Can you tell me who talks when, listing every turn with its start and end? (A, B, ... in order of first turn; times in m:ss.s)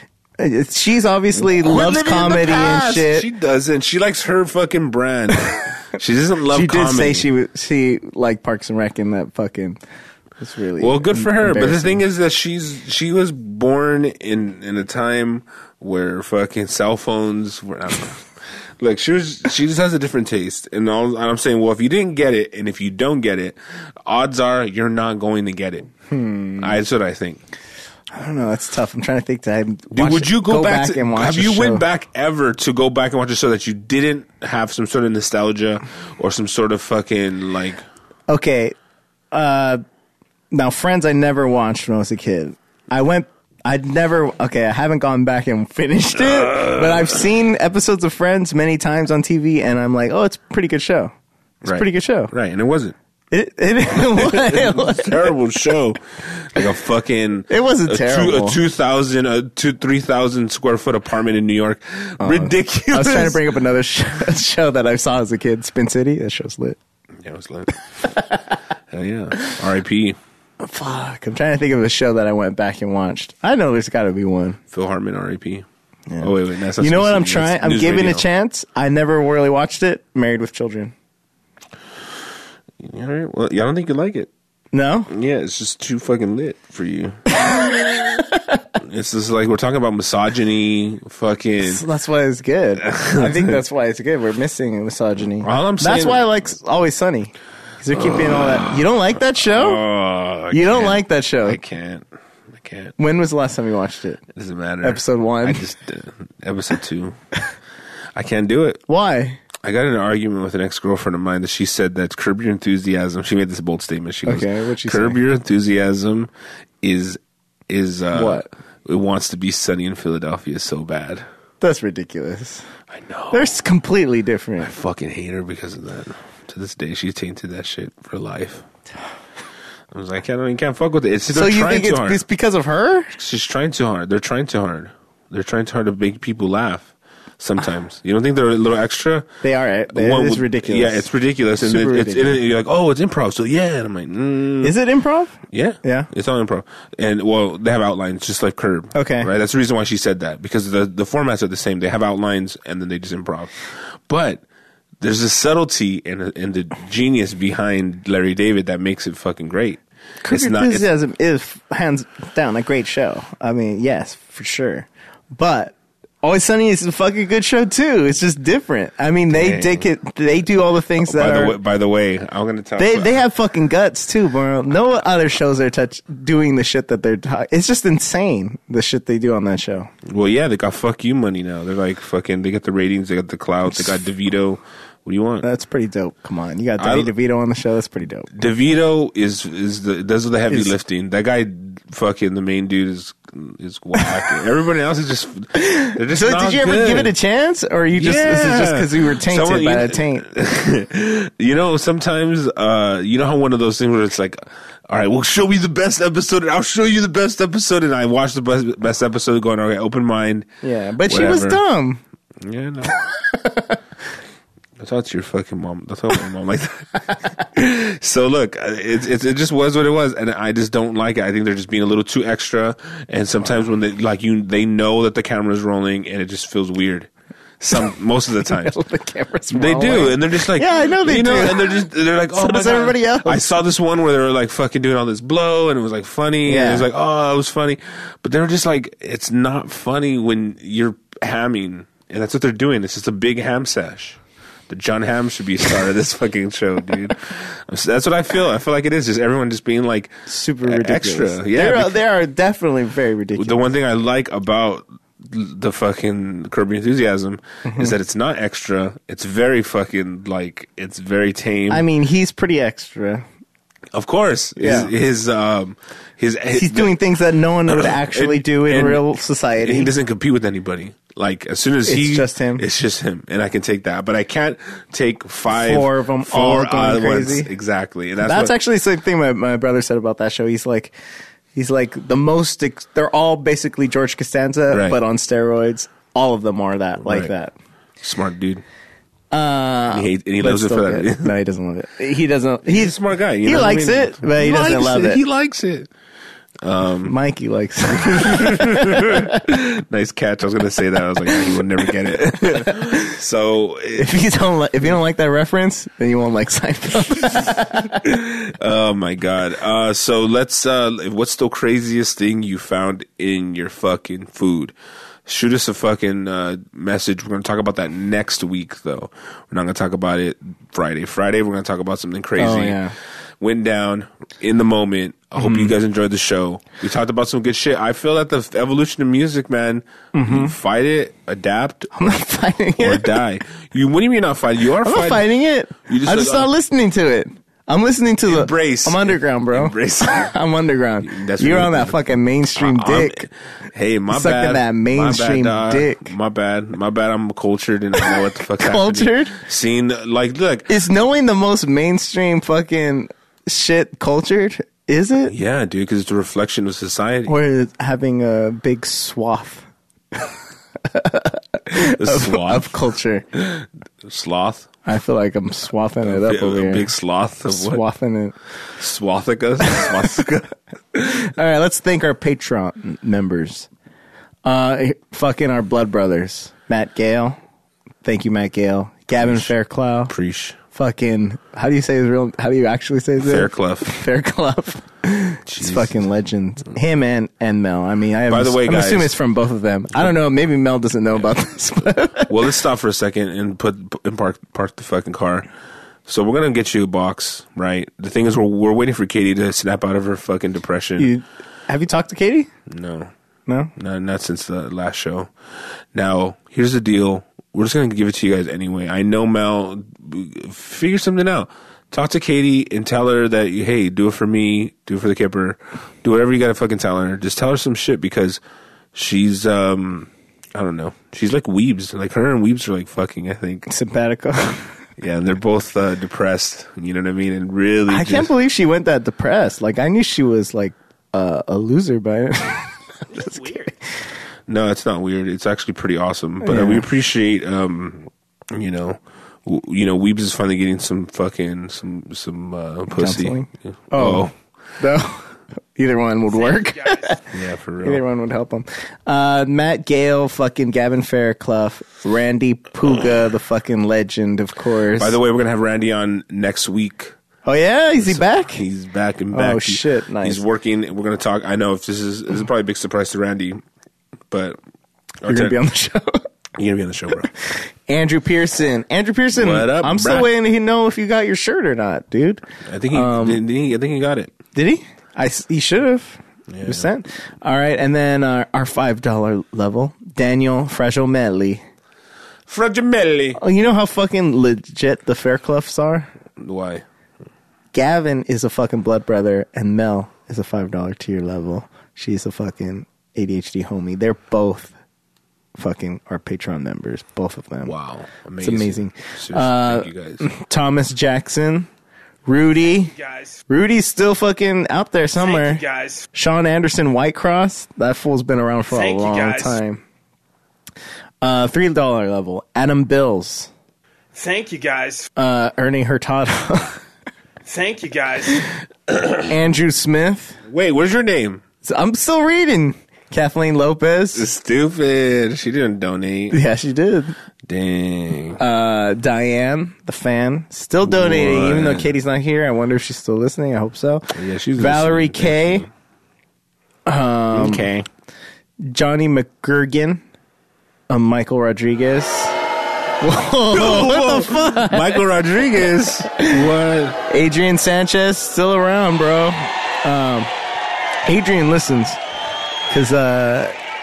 0:00.4-0:03.3 A
0:01.4-0:07.3 B
0:06.5-0:09.8 A
0:10.4-0:12.0 A
0:10.8-0:25.9 B
0:26.1-0:26.8 A
0:26.6-0:27.4 B
0:28.1-0:31.8 A
0:29.9-0:37.8 B
0:38.3-0:38.7 A
0:39.3-0:39.8 A
0:40.5-0:51.1 A
0:46.2-0:47.2 B
0:51.6-0:52.3 A
0:51.6-0:52.9 B
0:53.3-0:55.3 A
0:53.9-1:03.4 B
0:57.5-0:58.6 A
1:02.2-1:06.8 A
1:07.2-1:07.7 B
1:08.9-1:10.2 B
1:10.6-1:14.6 A
1:14.7-1:15.6 B
1:16.1-1:20.9 A
1:16.2-1:18.2 B
1:22.8-1:24.3 B
1:24.7-1:25.1 A
1:25.1-1:27.9 B
1:27.4-1:28.3 A
1:28.8-1:31.8 B
1:31.6-1:39.8 A
1:32.8-1:33.6 B
1:35.4-1:36.3 B
1:37.9-1:42.9 B
1:40.5-1:41.6 A
1:43.0-1:44.2 A
1:44.3-1:47.2 B
1:44.8-1:45.6 A
1:48.1-1:48.8 B
1:48.9-1:49.4 A
1:49.6-1:56.3 B
1:54.3-1:55.2 A
1:56.8-2:01.2 B
1:58.1-1:58.5 A
2:01.6-2:02.6 A
2:02.9-2:03.6 B
2:03.3-2:04.7 A
2:04.6-2:08.6 B
2:09.9-2:12.2 B
2:11.3-2:13.1 A
2:13.2-2:19.3 B
2:19.4-2:22.4 A
2:19.9-2:24.7 B
2:24.6-2:26.1 A
2:25.5-2:34.4 B
2:28.9-2:29.3 A
2:35.0-2:40.8 B
2:40.2-2:51.6 A
2:49.3-2:49.9 B
2:51.0-2:53.2 B
2:52.8-2:59.9 A
3:00.0-3:05.4 B
3:05.4-3:08.3 A
3:06.8-3:07.1 B
3:08.3-3:17.1 B
3:15.6-3:20.3 A
3:17.9-3:30.5 B
3:30.6-3:32.0 A
3:31.0-3:31.6 B
3:32.4-3:32.9 B
3:32.9-3:33.6 A
3:34.8-3:48.7 B
3:48.4-3:51.8 A
3:49.5-4:12.0 B
3:52.4-3:53.6 A
3:56.4-3:56.9 A
4:10.3-4:13.6 A
4:13.4-4:21.8 B
4:17.6-4:17.9 A
4:21.7-4:23.2 A
4:23.9-4:27.0 B
4:24.6-4:24.9 A
4:26.5-4:29.9 A
4:27.7-4:38.5 B
4:31.9-4:32.6 A
4:35.5-4:37.5 A
4:38.2-4:40.9 A
4:41.6-4:47.5 A
4:44.7-4:45.0 B
4:47.0-4:47.3 B
4:48.0-4:48.6 B
4:49.3-4:55.2 A
4:49.9-4:51.3 B
4:52.6-4:55.9 B
4:56.6-4:57.2 B
4:57.1-4:59.4 A
4:58.0-5:04.1 B
5:01.3-5:01.6 A
5:02.3-5:03.0 A
5:04.0-5:08.0 A
5:08.0-5:14.7 B
5:15.3-5:22.8 B
5:22.4-5:22.9 A
5:23.4-5:32.1 B
5:25.4-5:25.7 A
5:30.1-5:30.5 A
5:31.9-5:33.2 A
5:32.8-5:35.3 B
5:34.8-5:43.2 A
5:35.9-5:36.5 B
5:38.2-5:40.3 B
5:41.0-5:42.0 B
5:42.6-5:50.8 B
5:44.1-5:46.1 A
5:48.0-5:49.3 A
5:50.7-5:55.3 A
5:55.2-5:57.3 B
5:57.3-6:00.3 A
6:00.9-6:03.2 A
6:01.7-6:02.7 B
6:03.3-6:04.7 B
6:04.9-6:06.9 A
6:06.0-6:07.8 B
6:07.5-6:08.3 A
6:08.8-6:11.0 B
6:09.6-6:10.2 A
6:11.0-6:13.7 A
6:14.4-6:17.4 A
6:18.0-6:20.1 A
6:19.1-6:19.5 B
6:20.1-6:20.6 B
6:20.7-6:32.4 A
6:23.2-6:23.9 B
6:25.5-6:26.0 B
6:28.3-6:29.1 B
6:32.3-6:35.5 B
6:36.1-6:41.1 B
6:41.0-6:42.5 A
6:42.7-6:43.1 B
6:43.5-6:43.7 A
6:43.8-6:45.3 B
6:45.9-6:58.4 B
6:58.9-7:03.7 B
7:03.7-7:04.7 A
7:05.0-7:08.3 B
7:07.9-7:13.7 A
7:13.1-7:13.6 B
7:14.5-7:24.3 B
7:16.4-7:16.9 A
7:22.9-7:24.3 A
7:24.8-7:27.2 A
7:26.3-7:27.2 C
7:27.3-7:28.0 B
7:27.8-7:35.2 A
7:35.0-7:37.2 B
7:37.4-7:38.6 A
7:38.0-7:43.6 B
7:39.3-7:40.4 A
7:44.3-7:44.6 B
7:45.2-7:45.6 B
7:45.3-7:46.2 A
7:46.6-7:47.3 B
7:47.9-7:52.4 A
7:49.3-7:50.3 B
7:52.7-7:54.3 B
7:52.9-7:53.4 A
7:54.6-8:01.6 A
7:56.5-7:56.8 B
8:02.5-8:03.4 B
8:03.4-8:06.1 A
8:06.4-8:06.8 B
8:07.7-8:14.7 A
8:15.6-8:17.7 A
8:17.6-8:20.3 B
8:18.4-8:21.7 A
8:22.3-8:22.9 A
8:22.6-8:23.4 C
8:23.5-8:25.6 A
8:25.2-8:26.0 C
8:26.1-8:29.8 A
8:28.7-8:29.6 C
8:31.2-8:33.5 A
8:34.1-8:35.1 C
8:35.2-8:36.8 A
8:37.4-8:38.4 C
8:38.9-8:39.2 B
8:39.3-8:40.4 A
8:40.4-8:41.4 B
8:41.6-8:44.3 A
8:44.1-8:46.4 B
8:46.3-8:47.1 A
8:47.4-8:48.4 B
8:48.4-8:55.6 A
8:50.8-8:51.9 B
8:54.1-8:55.7 B
8:56.9-8:57.7 A
8:57.3-8:57.9 B
8:58.6-9:00.0 A
9:00.9-9:02.4 A
9:03.0-9:05.0 A
9:03.5-9:07.0 B
9:06.1-9:06.5 A
9:07.0-9:10.3 A
9:11.0-9:12.0 A
9:12.7-9:13.6 A